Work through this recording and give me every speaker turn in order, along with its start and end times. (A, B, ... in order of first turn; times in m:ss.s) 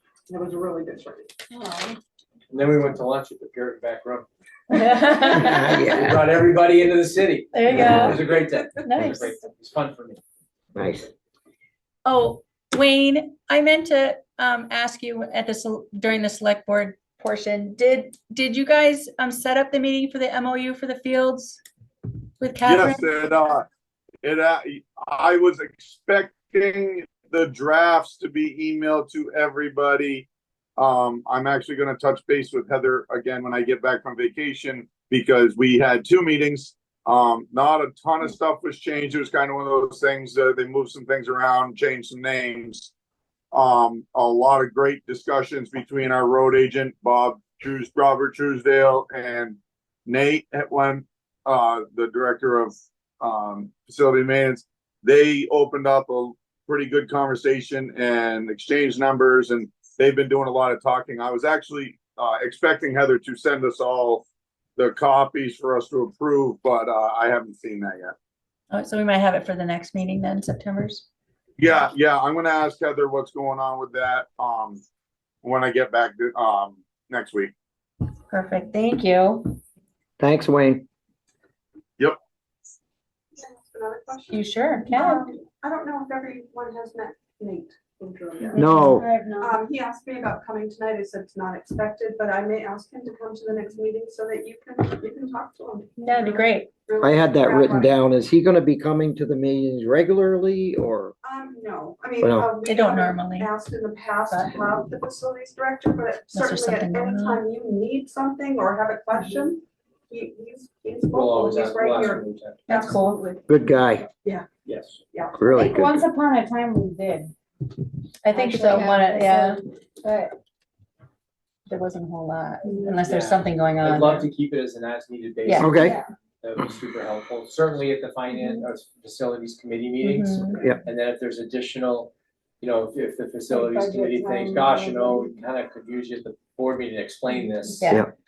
0:00.3-0:01.4 A
0:01.5-0:02.0 B
0:02.5-0:04.3 C
0:04.7-0:05.9 D
0:05.3-0:06.3 E
0:05.7-0:10.2 C
0:07.5-0:08.2 D
0:07.7-0:08.2 E
0:08.8-0:09.3 D
0:10.8-0:11.1 E
0:12.0-0:21.6 D
0:22.4-0:23.1 D
0:22.6-0:23.7 F
0:24.2-0:42.9 F
0:43.5-1:04.2 F
1:04.8-1:08.1 F
1:08.7-1:11.1 D
1:11.6-1:14.8 F
1:15.4-1:17.5 F
1:18.3-1:19.6 D
1:20.2-1:20.9 E
1:23.4-1:28.8 A
1:24.3-1:25.3 D
1:28.5-1:29.6 B
1:28.6-1:29.1 E
1:29.4-1:38.0 A
1:36.0-1:36.7 D
1:37.0-1:41.1 E
1:41.2-1:53.5 A
1:42.2-1:42.5 E
1:42.6-1:43.5 D
1:44.3-1:44.7 D
1:46.3-1:47.4 D
1:51.1-1:52.6 C
1:52.7-1:53.2 D
1:53.5-1:54.1 E
1:54.7-1:55.0 C
1:55.1-1:55.4 A
1:55.4-1:56.0 E
1:55.5-1:57.3 B
1:58.2-1:59.6 D
1:58.3-2:00.4 B
2:01.7-2:04.3 D
2:03.0-2:18.0 C
2:05.4-2:05.8 D
2:05.6-2:06.0 E
2:05.8-2:06.1 B
2:10.0-2:10.6 D
2:13.5-2:15.4 B
2:17.7-2:18.1 D